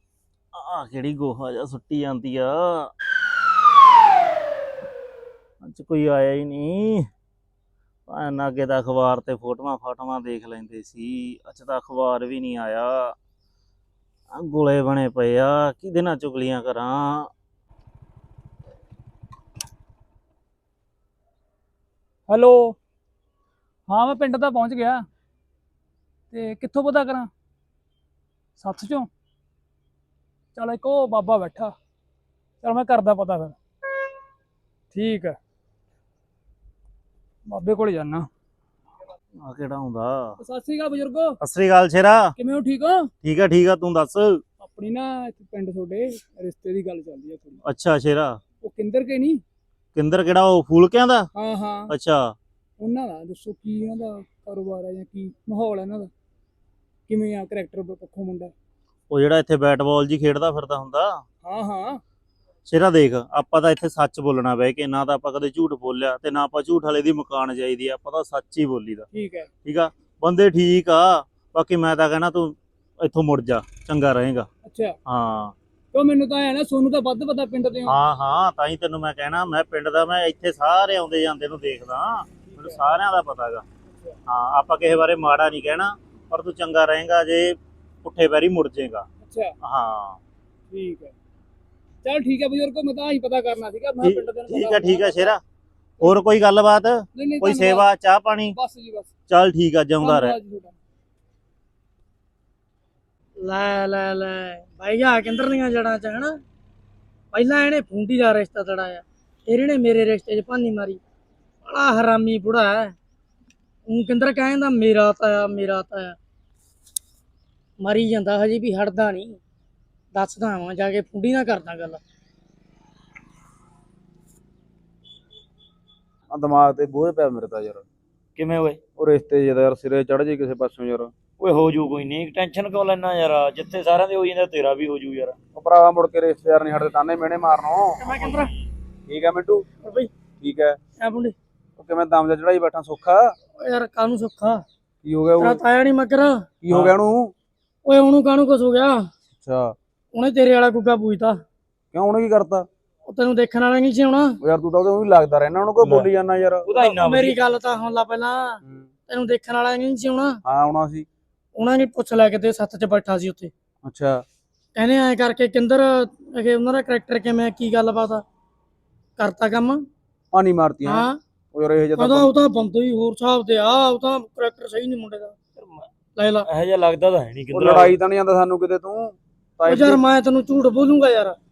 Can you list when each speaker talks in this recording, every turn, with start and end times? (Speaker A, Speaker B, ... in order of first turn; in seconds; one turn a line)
Speaker A: 0.5-2.9
Speaker A: 5.6-7.1
Speaker A: 8.1-13.1
Speaker A: 14.3-17.3
Speaker B: 22.3-22.7
Speaker B: 23.9-25.0
Speaker B: 26.3-27.3
Speaker B: 28.6-29.1
Speaker B: 30.5-31.7
Speaker B: 32.6-33.5
Speaker B: 34.9-35.4
Speaker B: 37.5-38.3
Speaker A: 39.4-40.4
Speaker B: 40.4-41.4
Speaker A: 41.4-42.3
Speaker B: 42.4-43.1
Speaker A: 43.2-44.4
Speaker B: 44.6-47.6
Speaker A: 47.6-48.4
Speaker B: 48.6-49.4
Speaker A: 49.9-51.3
Speaker B: 51.4-51.9
Speaker A: 51.9-52.3
Speaker B: 52.8-56.1
Speaker B: 57.1-58.5
Speaker A: 59.1-61.2
Speaker B: 61.5-62.0
Speaker A: 62.6-69.0
Speaker B: 69.1-69.5
Speaker A: 69.6-74.5
Speaker B: 74.7-74.9
Speaker A: 75.0-75.5
Speaker B: 75.9-78.0
Speaker A: 77.8-83.6
Speaker B: 82.5-82.8
Speaker A: 84.3-89.0
Speaker B: 89.2-89.5
Speaker A: 89.6-90.2
Speaker B: 90.7-91.1
Speaker B: 92.0-95.3
Speaker A: 94.0-95.4
Speaker A: 96.0-98.6
Speaker B: 97.1-97.9
Speaker B: 98.5-99.1
Speaker A: 99.3-100.3
Speaker B: 100.0-100.8
Speaker C: 103.4-106.3
Speaker C: 107.3-111.0
Speaker C: 111.6-112.9
Speaker C: 113.9-116.2
Speaker C: 117.8-119.4
Speaker C: 120.1-122.0
Speaker D: 126.3-127.8
Speaker E: 128.3-128.8
Speaker D: 129.0-131.1
Speaker E: 131.4-135.4
Speaker D: 135.5-138.2
Speaker C: 138.0-138.5
Speaker A: 138.3-138.6
Speaker D: 139.1-139.6
Speaker C: 139.8-140.1
Speaker D: 140.4-140.8
Speaker C: 141.0-141.3
Speaker D: 141.8-143.3
Speaker C: 143.6-144.6
Speaker D: 145.0-145.6
Speaker C: 145.4-146.4
Speaker D: 146.6-147.3
Speaker E: 146.7-146.9
Speaker C: 147.8-149.1
Speaker D: 149.4-149.7
Speaker C: 150.1-151.4
Speaker D: 151.9-152.7
Speaker C: 153.1-154.3
Speaker D: 154.4-156.7
Speaker E: 155.8-156.1
Speaker E: 156.6-157.4
Speaker C: 156.7-160.4
Speaker D: 158.6-158.9
Speaker D: 160.4-161.1
Speaker C: 161.6-163.5
Speaker D: 163.8-164.2
Speaker C: 164.7-168.2
Speaker C: 169.2-169.8
Speaker D: 170.3-172.3
Speaker C: 170.8-171.2
Speaker C: 172.0-175.3
Speaker E: 175.6-175.9
Speaker C: 176.2-176.5
Speaker E: 176.4-177.9
Speaker D: 177.5-180.0
Speaker C: 179.7-181.3